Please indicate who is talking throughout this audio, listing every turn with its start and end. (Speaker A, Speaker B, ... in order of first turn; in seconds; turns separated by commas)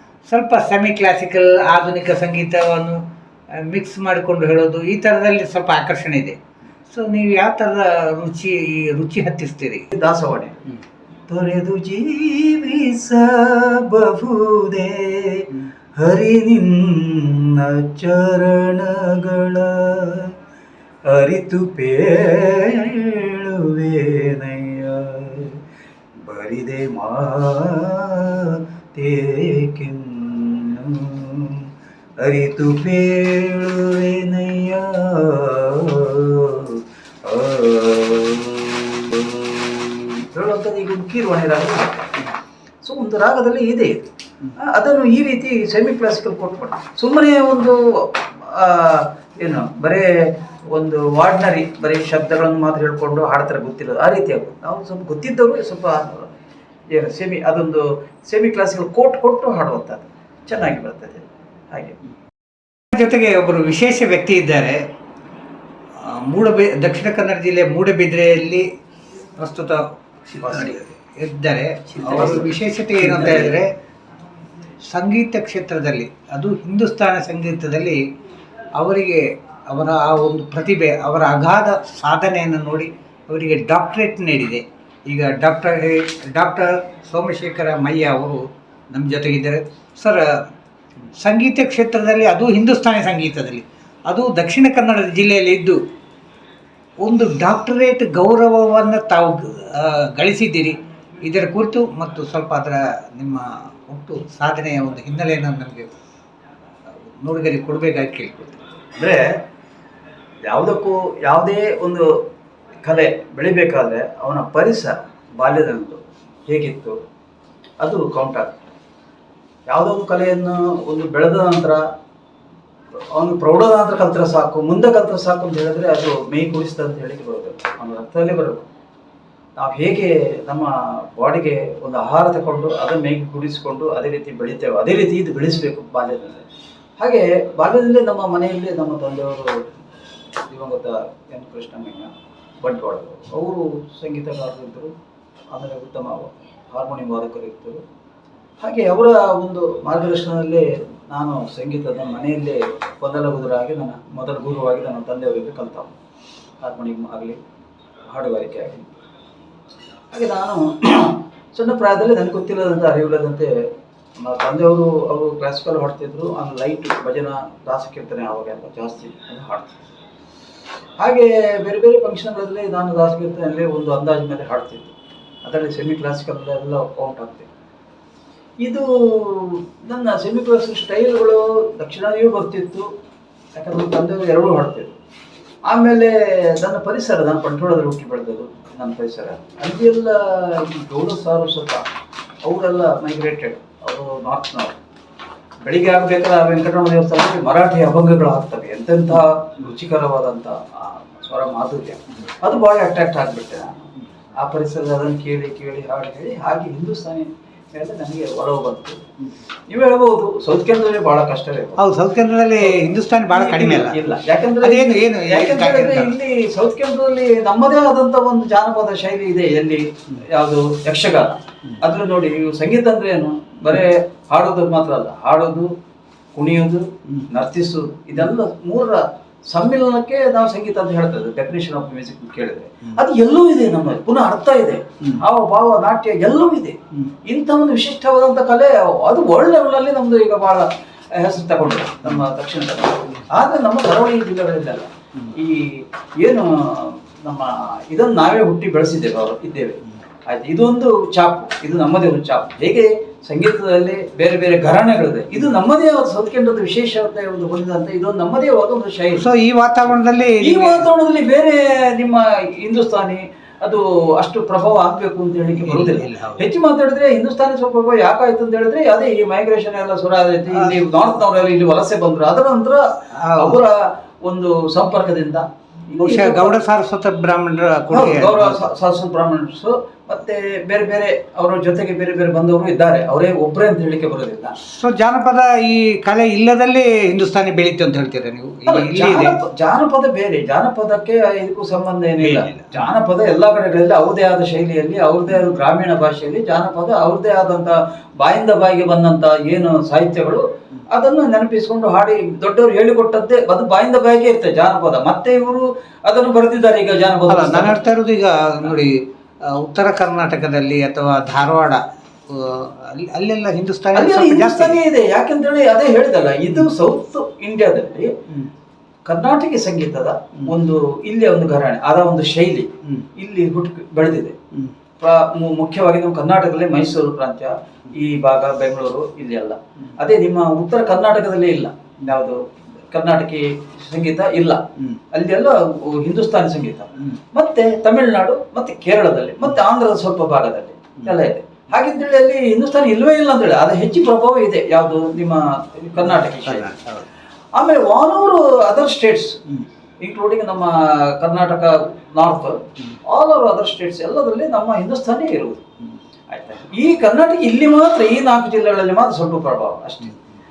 Speaker A: 0.3-3.0, Speaker A: 3.6-6.4, Speaker A: 6.9-9.9, Speaker B: 9.9-10.6, Speaker B: 11.3-20.3, Speaker B: 21.1-25.6, Speaker B: 26.2-31.6, Speaker B: 32.2-42.1, Speaker B: 42.8-44.1, Speaker B: 44.6-50.0, Speaker B: 50.7-56.3, Speaker B: 56.9-62.0, Speaker A: 62.9-64.8, Speaker A: 66.0-68.7, Speaker A: 69.4-73.7, Speaker B: 70.4-70.8, Speaker B: 71.9-73.5, Speaker A: 74.9-78.0, Speaker A: 78.8-90.3, Speaker A: 91.2-95.8, Speaker A: 97.0-105.9, Speaker A: 107.2-108.8, Speaker B: 109.0-109.2, Speaker B: 110.5-112.1, Speaker B: 112.8-117.0, Speaker B: 117.8-118.6, Speaker B: 119.7-121.8, Speaker B: 123.1-128.7, Speaker B: 129.6-136.4, Speaker B: 137.0-139.5, Speaker B: 140.4-144.9, Speaker B: 145.5-147.8, Speaker B: 148.6-156.0, Speaker B: 156.6-157.4, Speaker B: 158.1-158.9, Speaker B: 160.1-163.5, Speaker B: 164.2-169.7, Speaker B: 171.0-174.9, Speaker B: 175.4-177.5, Speaker B: 178.6-182.9, Speaker B: 183.5-184.9, Speaker B: 185.7-191.8, Speaker B: 192.4-194.7, Speaker B: 195.6-203.8, Speaker B: 204.4-209.0, Speaker B: 209.7-211.8, Speaker A: 211.8-213.9, Speaker B: 212.6-225.7, Speaker A: 214.6-216.1, Speaker B: 226.3-259.2, Speaker A: 259.2-260.8, Speaker B: 260.4-272.8, Speaker A: 265.5-266.4, Speaker A: 273.2-273.6, Speaker B: 273.4-276.6, Speaker A: 276.0-278.7, Speaker B: 277.9-284.5, Speaker A: 284.7-289.4, Speaker B: 288.7-307.8, Speaker A: 292.2-292.9, Speaker A: 307.3-308.9, Speaker A: 309.5-314.8, Speaker B: 313.9-318.1, Speaker B: 319.1-324.4, Speaker B: 325.0-332.4, Speaker B: 332.9-334.6, Speaker B: 335.1-346.7, Speaker A: 346.4-347.1, Speaker B: 347.6-349.4, Speaker B: 350.0-355.6, Speaker B: 356.3-360.1